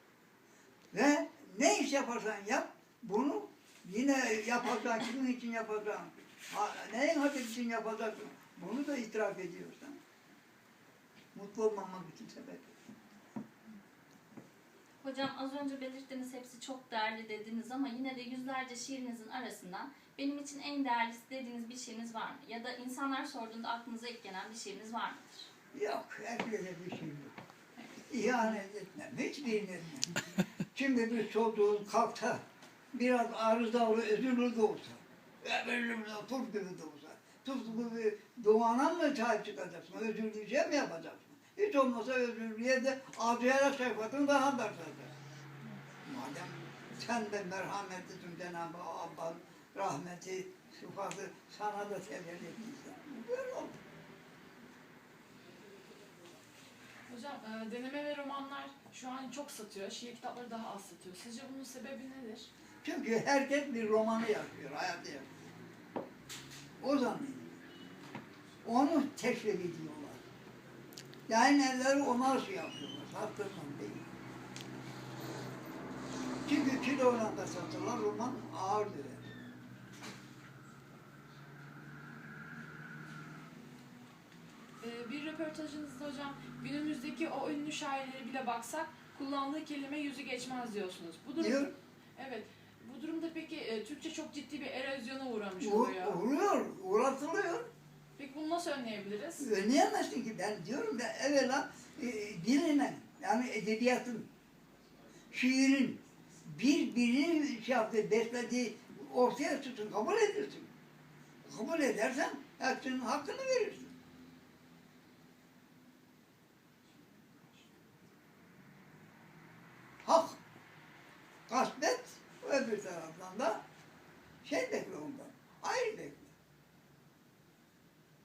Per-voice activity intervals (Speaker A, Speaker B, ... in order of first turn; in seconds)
Speaker A: 0.9-10.0, 11.3-12.8, 25.7-27.3, 28.1-45.1, 46.0-53.8, 62.8-65.4, 66.8-67.6, 68.6-70.2, 71.3-74.1, 76.4-79.3, 91.4-91.7, 95.6-97.7, 99.4-104.3, 105.3-110.7, 111.4-113.9, 120.0-120.4, 121.5-123.6, 124.4-126.3
Speaker B: 15.0-25.5
Speaker C: 57.1-62.5, 84.8-96.2, 98.2-99.5